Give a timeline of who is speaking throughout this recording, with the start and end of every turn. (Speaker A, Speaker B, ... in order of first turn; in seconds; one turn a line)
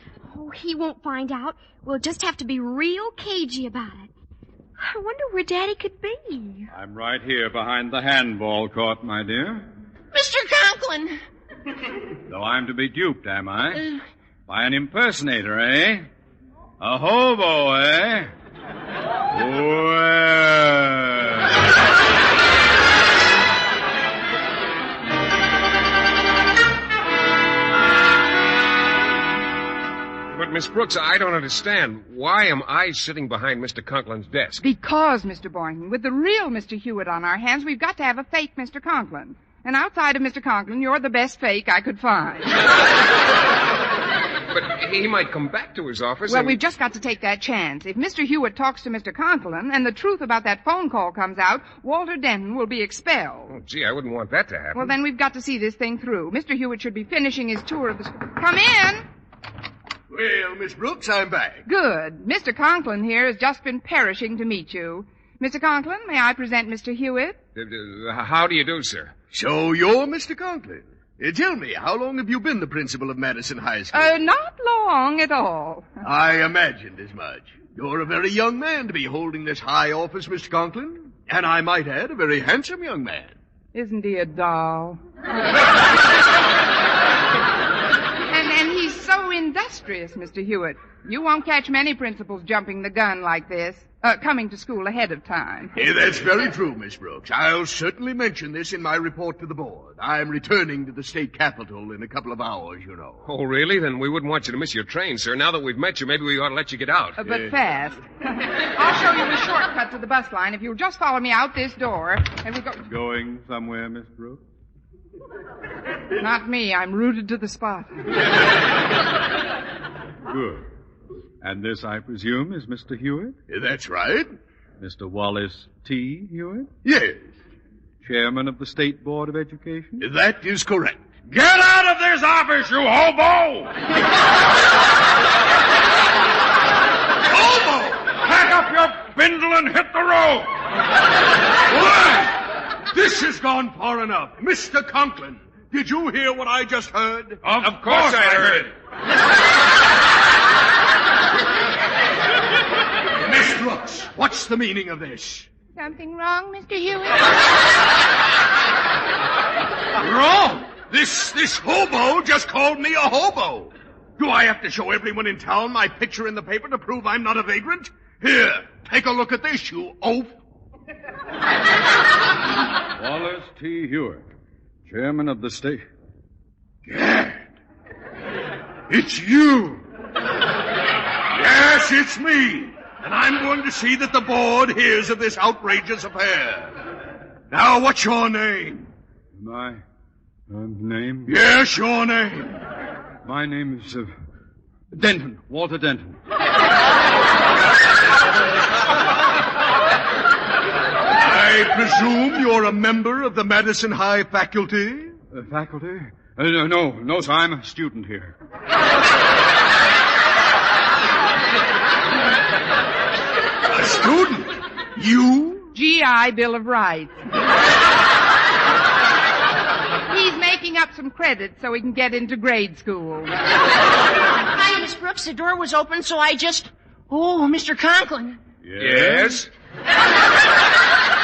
Speaker A: 0.3-4.1
Speaker A: 4.8-6.7
Speaker B: 6.7-9.6
Speaker C: 10.1-11.2
Speaker B: 12.3-13.8
Speaker B: 14.5-16.1
Speaker B: 16.8-18.3
Speaker B: 19.3-21.5
Speaker D: 30.3-34.6
Speaker E: 34.6-42.7
Speaker D: 44.5-46.6
Speaker E: 46.3-53.5
Speaker D: 53.5-54.9
Speaker E: 54.7-59.0
Speaker F: 60.1-61.6
Speaker E: 61.6-67.4
Speaker D: 67.5-69.1
Speaker F: 69.3-74.1
Speaker E: 73.9-76.0
Speaker F: 76.0-83.3
Speaker E: 83.7-85.0
Speaker E: 88.3-95.8
Speaker F: 95.8-103.2
Speaker D: 103.2-107.2
Speaker E: 107.2-112.8
Speaker B: 112.8-114.4
Speaker E: 116.2-118.2
Speaker B: 120.2-120.7
Speaker B: 121.4-123.3
Speaker F: 123.5-124.3
Speaker B: 124.8-126.7
Speaker F: 126.8-127.3
Speaker B: 128.0-130.0
Speaker F: 130.0-131.0
Speaker B: 131.3-133.7
Speaker F: 137.2-138.1
Speaker B: 138.2-140.5
Speaker F: 141.7-142.2
Speaker B: 141.7-142.2
Speaker F: 142.9-147.4
Speaker D: 147.4-148.7
Speaker B: 147.5-148.6
Speaker F: 153.2-155.5
Speaker E: 155.8-157.4
Speaker F: 160.0-170.4
Speaker B: 172.9-174.2
Speaker B: 174.8-175.8
Speaker F: 176.9-177.3
Speaker B: 178.9-179.8
Speaker F: 181.3-186.7
Speaker F: 187.5-188.9
Speaker B: 189.3-189.8
Speaker B: 190.5-191.3
Speaker F: 191.2-192.6
Speaker B: 193.2-194.1
Speaker B: 194.9-196.2
Speaker F: 201.1-205.2
Speaker B: 205.3-208.3
Speaker F: 213.7-215.7
Speaker E: 215.7-217.2
Speaker E: 220.1-223.4
Speaker C: 224.3-228.4
Speaker B: 228.6-229.4
Speaker D: 228.8-229.5